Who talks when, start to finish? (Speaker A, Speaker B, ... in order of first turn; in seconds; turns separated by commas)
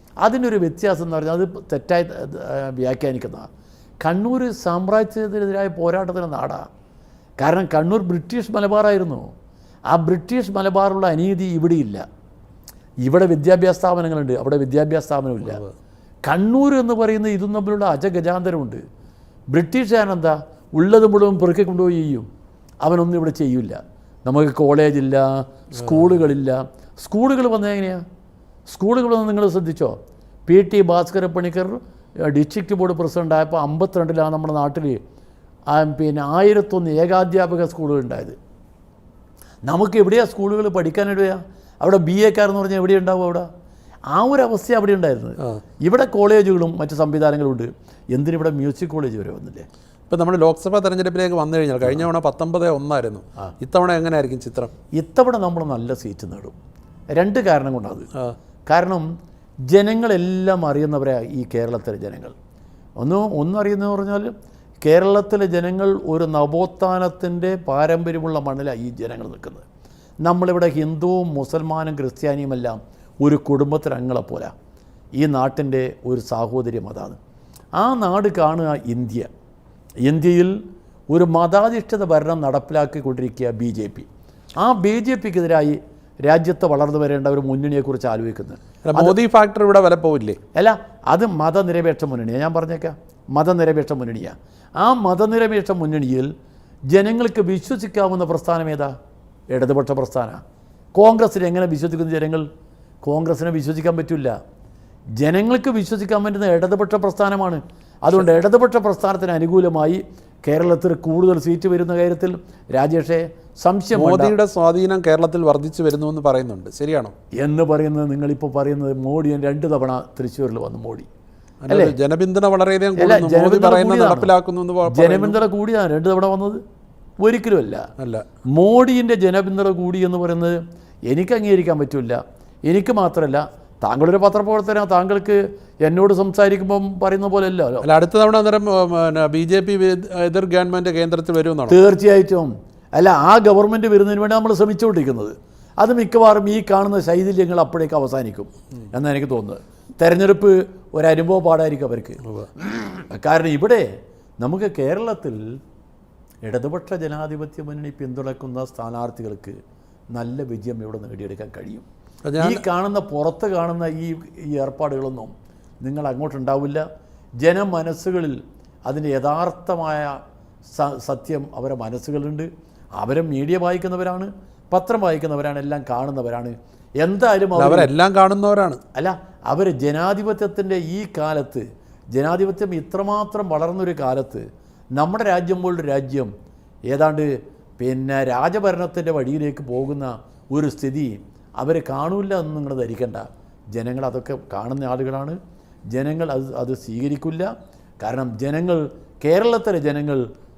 Speaker A: 0.2-3.5, Speaker A: 4.0-6.6, Speaker A: 7.4-9.3, Speaker A: 9.9-12.0, Speaker A: 13.0-15.7, Speaker A: 16.3-18.8, Speaker A: 19.5-22.3, Speaker A: 22.8-28.0, Speaker A: 28.7-29.9, Speaker A: 30.5-35.0, Speaker A: 35.7-38.4, Speaker A: 39.7-43.5, Speaker A: 44.1-49.7, Speaker B: 50.1-54.7, Speaker A: 55.0-56.5, Speaker A: 57.1-58.1, Speaker A: 58.7-59.1, Speaker A: 59.7-62.3, Speaker A: 63.0-64.3, Speaker A: 64.8-69.7, Speaker A: 70.2-74.5, Speaker A: 75.2-77.2, Speaker A: 77.8-79.3, Speaker A: 80.0-80.5, Speaker A: 81.1-84.1, Speaker A: 84.6-89.2, Speaker B: 88.8-90.4, Speaker A: 90.5-96.3, Speaker A: 96.9-98.9, Speaker A: 99.5-100.4, Speaker A: 101.0-102.5, Speaker A: 103.0-104.3, Speaker A: 105.2-114.3, Speaker B: 113.9-117.1, Speaker A: 117.4-121.1, Speaker B: 121.7-125.4, Speaker A: 121.7-122.0, Speaker A: 123.0-124.3, Speaker A: 124.9-126.6, Speaker A: 127.2-127.9, Speaker B: 128.0-128.2, Speaker A: 128.5-137.9, Speaker B: 137.8-141.8, Speaker A: 141.7-153.9, Speaker A: 154.4-155.5, Speaker A: 156.5-159.6, Speaker A: 160.1-161.8, Speaker B: 162.3-162.6, Speaker A: 162.4-166.8, Speaker A: 167.4-170.2, Speaker A: 170.8-177.9, Speaker B: 177.6-178.8, Speaker A: 178.9-184.4, Speaker A: 185.0-186.3, Speaker A: 186.9-195.4, Speaker A: 195.9-197.5, Speaker A: 198.0-200.2